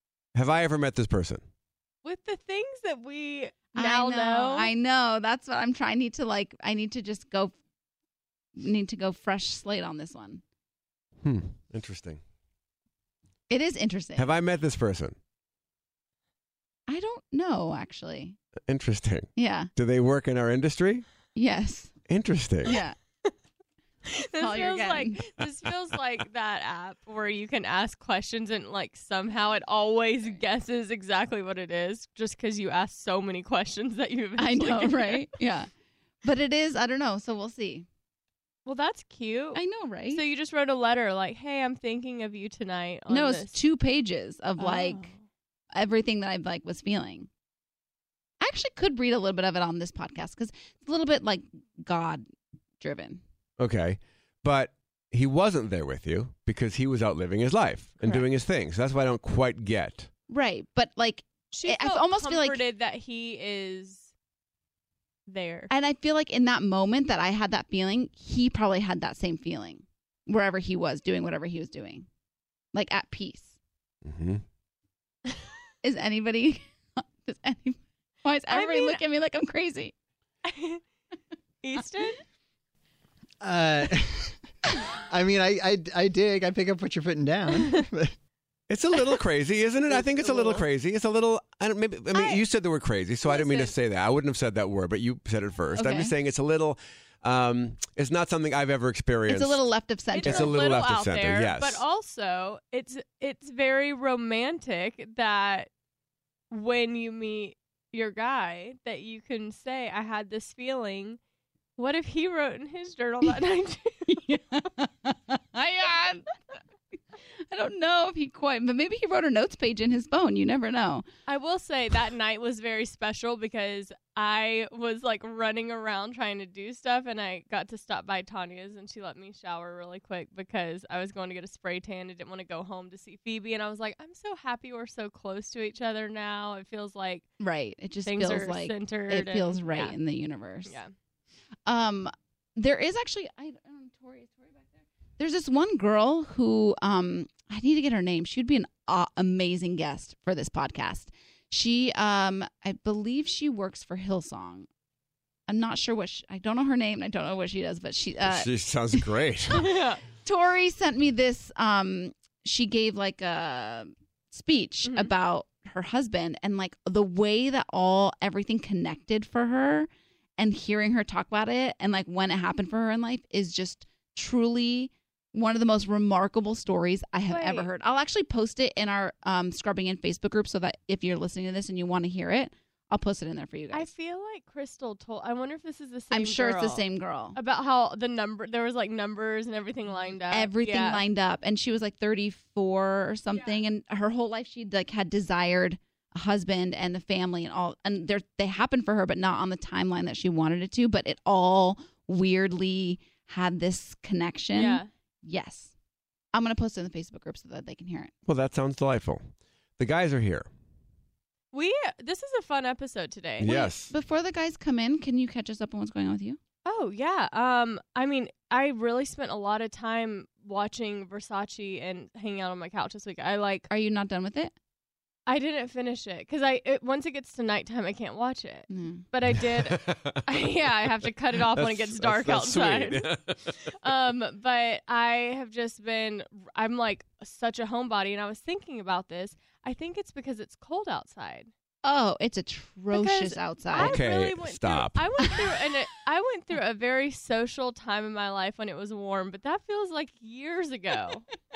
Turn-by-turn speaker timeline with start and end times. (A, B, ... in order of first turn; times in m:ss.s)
0:00.3-0:01.4 A
0:02.0-0:04.7 B
0:03.7-0:07.5 C
0:08.6-0:10.4 C
0:11.2-0:12.2 A
0:13.5-0:14.3 C
0:14.2-0:15.2 A
0:16.9-0:18.4 C
0:18.7-0:21.0 A
0:19.4-0:19.7 C
0:21.3-0:21.9 C
0:22.1-0:22.7 A
0:22.6-0:23.0 C
0:22.7-0:23.3 B
0:24.1-0:35.3 B
0:24.4-0:25.2 C
0:34.4-0:35.7 C
0:36.2-0:37.8 C
0:38.6-0:43.6 B
0:39.5-0:40.2 C
0:43.1-0:45.1 C
0:44.6-0:45.2 B
0:45.7-0:47.3 C
0:48.4-0:52.2 C
0:52.8-0:53.2 C
0:53.6-1:00.1 A
1:00.3-1:02.6 C
1:01.5-1:04.1 B
1:05.3-1:05.7 B
1:05.7-1:12.0 C
1:12.7-1:13.5 C
1:14.0-1:14.4 A
1:15.8-1:19.9 C
1:18.5-1:19.0 B
1:20.4-1:20.8 B
1:21.6-1:22.2 B
1:23.4-1:24.4 D
1:25.1-1:28.2 D
1:28.7-1:39.7 A
1:30.2-1:30.6 B
1:32.1-1:32.4 B
1:33.2-1:33.7 B
1:35.7-1:36.1 C
1:39.3-1:40.6 C
1:40.1-1:45.7 B
1:40.2-1:41.8 A
1:46.5-1:51.2 B
1:51.8-1:54.2 B
1:54.1-1:56.3 C
1:57.5-2:01.0 C
2:01.3-2:17.3 B
2:17.4-2:20.8 C
2:18.0-2:19.9 B
2:20.6-2:20.9 B
2:21.6-2:34.7 C
2:35.5-2:39.1 C
2:38.2-2:39.6 A
2:39.5-2:40.0 B
2:40.2-3:03.9 C
2:44.8-2:45.1 B
2:57.3-2:57.7 B
3:03.7-3:11.0 B
3:06.1-3:07.4 C
3:10.3-3:25.7 C
3:24.5-3:24.9 B
3:26.3-3:28.1 C
3:28.2-3:30.5 A
3:31.5-3:33.6 B
3:33.4-3:33.9 A
3:33.4-3:36.4 C
3:36.6-3:43.7 B
3:43.7-3:44.5 C
3:45.3-3:53.1 B
3:48.7-3:49.0 C
3:49.4-3:50.7 A
3:51.4-3:53.6 A
3:53.6-4:01.5 B
4:01.8-4:04.0 C
4:02.9-4:11.2 B
4:03.7-4:05.1 A